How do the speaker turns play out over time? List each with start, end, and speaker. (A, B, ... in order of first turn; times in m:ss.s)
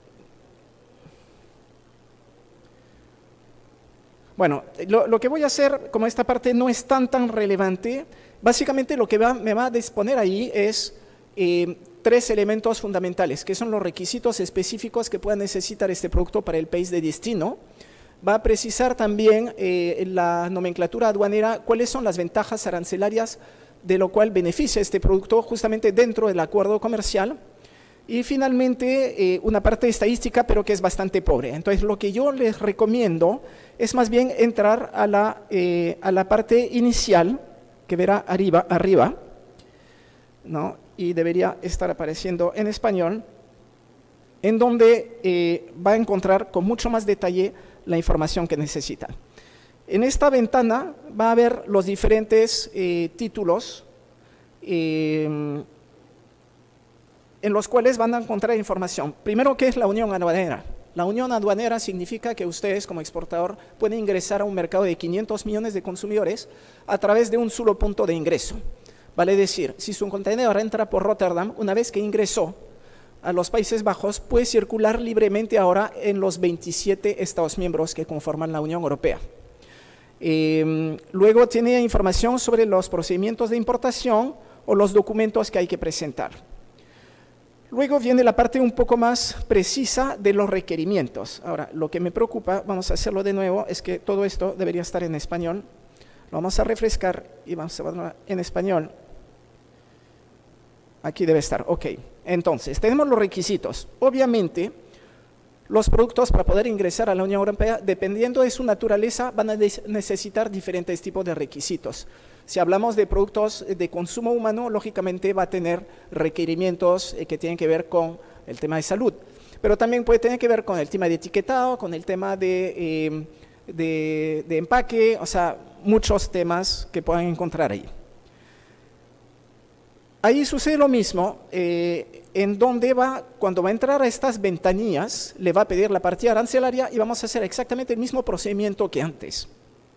0:04.4-0:17.6 A
0:18.2-0:27.3 A
0:28.1-0:39.1 A
0:40.4-0:43.2 A
0:44.4-0:49.1 A
0:49.9-0:53.8 A
0:54.6-0:55.6 A
0:57.4-1:08.6 A
1:09.2-1:12.6 A
1:13.2-1:19.2 A
1:20.2-1:26.4 A
1:27.7-1:35.6 A
1:36.3-1:38.9 A
1:41.0-1:44.7 A
1:45.7-2:07.9 A
2:10.2-2:19.5 A